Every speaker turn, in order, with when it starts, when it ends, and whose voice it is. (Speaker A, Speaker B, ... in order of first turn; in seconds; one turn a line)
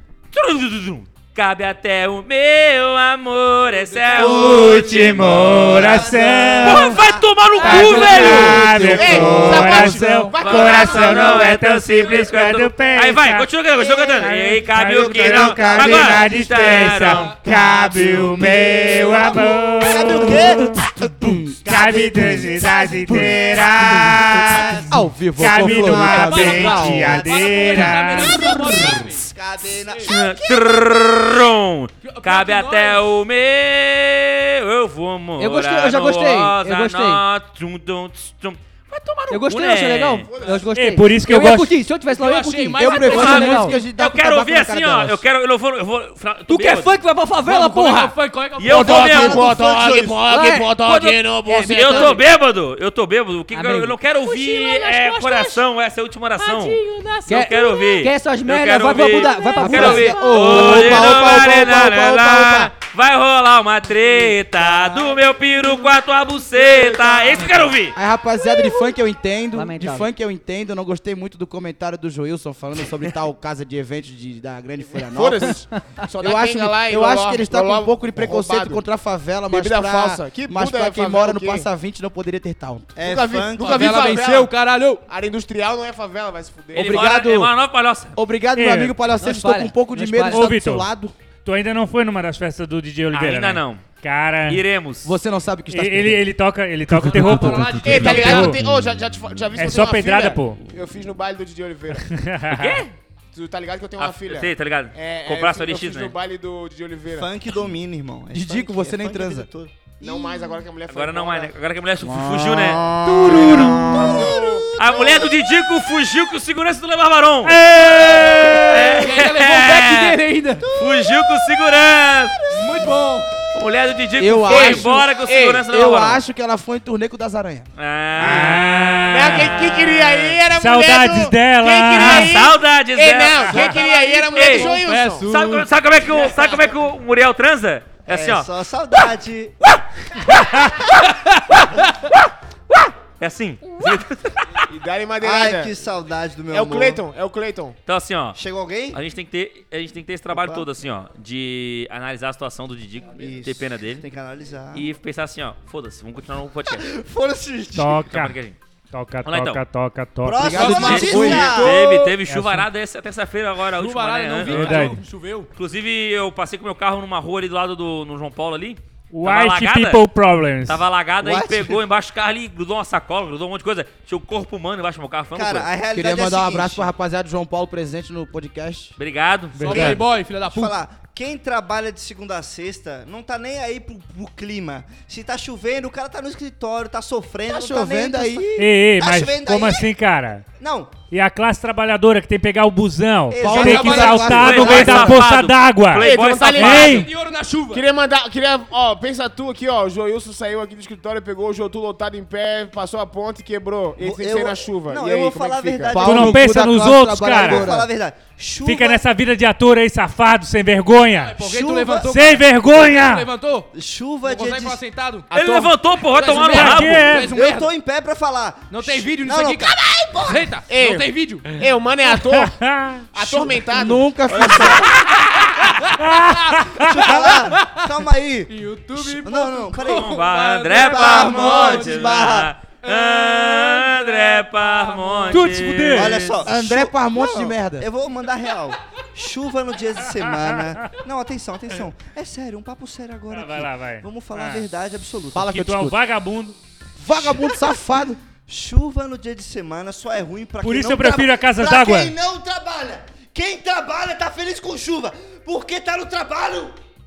Speaker A: 0.3-8.7
Speaker B: 3.8-4.7
Speaker C: 4.1-9.0
Speaker D: 4.4-7.0
Speaker D: 7.6-13.5
Speaker E: 7.7-10.3
Speaker F: 7.7-11.6
Speaker A: 10.4-17.3
Speaker D: 14.1-28.8
Speaker C: 15.5-16.2
Speaker B: 16.7-17.7
Speaker E: 17.4-18.8
Speaker C: 18.0-20.8
Speaker E: 20.9-24.2
Speaker C: 21.6-24.9
Speaker E: 24.9-27.2
Speaker B: 25.6-30.1
Speaker C: 25.7-30.3
Speaker A: 30.0-40.3
Speaker B: 32.0-33.1
Speaker G: 35.4-37.2
Speaker G: 39.3-43.7
Speaker B: 40.4-40.7
Speaker D: 40.7-41.8
Speaker B: 42.0-43.8
Speaker E: 42.8-45.2
Speaker A: 43.0-47.0
Speaker G: 46.5-48.1
Speaker B: 47.4-49.5
Speaker A: 48.6-49.5
Speaker F: 48.6-52.2
Speaker C: 48.8-50.2
Speaker G: 50.3-52.2
Speaker A: 51.6-68.0
Speaker G: 53.5-54.0
Speaker B: 54.2-55.6
Speaker B: 56.4-58.0
Speaker G: 57.3-61.1
Speaker E: 59.6-62.7
Speaker B: 59.7-60.6
Speaker B: 66.6-67.7
Speaker E: 67.9-75.6
Speaker G: 69.5-70.1
Speaker F: 75.1-78.8
Speaker E: 76.2-83.0
Speaker F: 79.5-81.7
Speaker C: 83.0-84.1
Speaker F: 83.0-84.5
Speaker B: 83.6-85.0
Speaker F: 85.1-87.1
Speaker E: 86.7-87.5
Speaker A: 86.7-88.2
Speaker E: 88.2-91.1
Speaker D: 88.5-88.9
Speaker G: 89.1-90.5
Speaker D: 90.3-90.9
Speaker D: 91.4-94.6
Speaker A: 93.1-93.9
Speaker A: 94.5-95.1
Speaker E: 95.0-96.2
Speaker D: 95.7-98.6
Speaker E: 96.9-98.6
Speaker B: 97.1-98.5
Speaker F: 97.8-102.1
Speaker D: 99.5-100.6
Speaker D: 102.0-102.8
Speaker A: 102.5-102.9
Speaker F: 103.3-107.3
Speaker A: 104.0-106.1
Speaker C: 107.1-110.6
Speaker E: 108.3-109.5
Speaker F: 110.0-111.5
Speaker A: 110.9-114.1
Speaker E: 112.1-112.4
Speaker C: 112.7-115.3
Speaker E: 113.0-114.1
Speaker F: 113.2-114.6
Speaker D: 113.3-113.8
Speaker A: 114.8-120.2
Speaker D: 117.5-118.9
Speaker B: 118.7-120.7
Speaker C: 120.6-121.2
Speaker A: 120.7-122.5
Speaker B: 122.5-123.3
Speaker A: 123.5-126.2
Speaker E: 124.2-125.0
Speaker F: 124.5-125.6
Speaker E: 125.6-127.7
Speaker A: 127.8-130.4
Speaker D: 128.2-129.8
Speaker F: 129.1-135.2
Speaker D: 130.5-132.3
Speaker A: 131.9-138.5
Speaker D: 133.5-133.8
Speaker B: 134.1-135.7
Speaker F: 136.2-136.6
Speaker C: 138.1-139.5
Speaker A: 140.2-140.7
Speaker A: 142.7-144.7
Speaker F: 144.7-145.7
Speaker C: 145.2-147.0
Speaker F: 146.5-147.8
Speaker A: 147.9-148.4
Speaker C: 148.3-149.0
Speaker A: 148.9-154.0
Speaker C: 150.3-150.7
Speaker C: 153.1-154.9
Speaker A: 154.7-156.9
Speaker C: 156.7-158.0
Speaker D: 157.8-158.4
Speaker A: 158.1-158.6
Speaker D: 158.9-160.8
Speaker A: 159.2-159.6
Speaker C: 160.2-162.2
Speaker E: 160.4-161.5
Speaker A: 160.6-165.0
Speaker B: 160.6-161.7
Speaker D: 162.3-162.7
Speaker B: 163.7-165.5
Speaker D: 164.4-165.0
Speaker A: 165.5-170.0
Speaker D: 169.1-170.8
Speaker A: 170.7-175.7
Speaker C: 171.2-171.8
Speaker C: 175.3-176.9
Speaker E: 175.9-178.9
Speaker A: 179.0-180.0
Speaker D: 179.6-180.0
Speaker B: 179.6-180.8
Speaker C: 179.7-189.9
Speaker E: 187.5-188.5
Speaker D: 188.6-190.4
Speaker C: 190.6-190.9
Speaker D: 191.1-197.1
Speaker C: 193.3-194.8
Speaker E: 193.4-195.3
Speaker B: 193.6-194.2
Speaker A: 194.2-197.1
Speaker F: 196.0-197.1
Speaker B: 196.4-197.8
Speaker F: 197.7-206.0
Speaker C: 204.0-206.6
Speaker E: 205.9-207.9
Speaker D: 206.0-207.7
Speaker C: 207.2-209.0
Speaker D: 208.6-211.4
Speaker B: 211.1-213.7
Speaker C: 211.4-212.3
Speaker D: 212.1-213.3
Speaker C: 213.7-214.8
Speaker B: 214.2-215.3
Speaker F: 215.3-216.5
Speaker A: 215.3-217.3
Speaker B: 216.1-217.7
Speaker D: 216.3-217.3
Speaker C: 217.1-220.6
Speaker B: 218.7-221.5
Speaker F: 220.7-222.6
Speaker D: 222.2-223.1
Speaker F: 223.1-224.3
Speaker E: 223.2-224.9
Speaker C: 224.3-224.9
Speaker B: 225.4-235.6
Speaker D: 226.0-227.0
Speaker C: 226.7-230.2
Speaker A: 229.8-236.3
Speaker C: 230.7-232.5
Speaker D: 235.3-236.3
Speaker C: 235.9-245.6
Speaker E: 236.4-237.9
Speaker D: 240.0-240.9
Speaker D: 243.3-244.7
Speaker E: 245.3-246.0
Speaker D: 245.5-246.6
Speaker E: 247.0-248.2
Speaker C: 247.2-247.5
Speaker C: 248.5-256.7
Speaker D: 250.6-252.1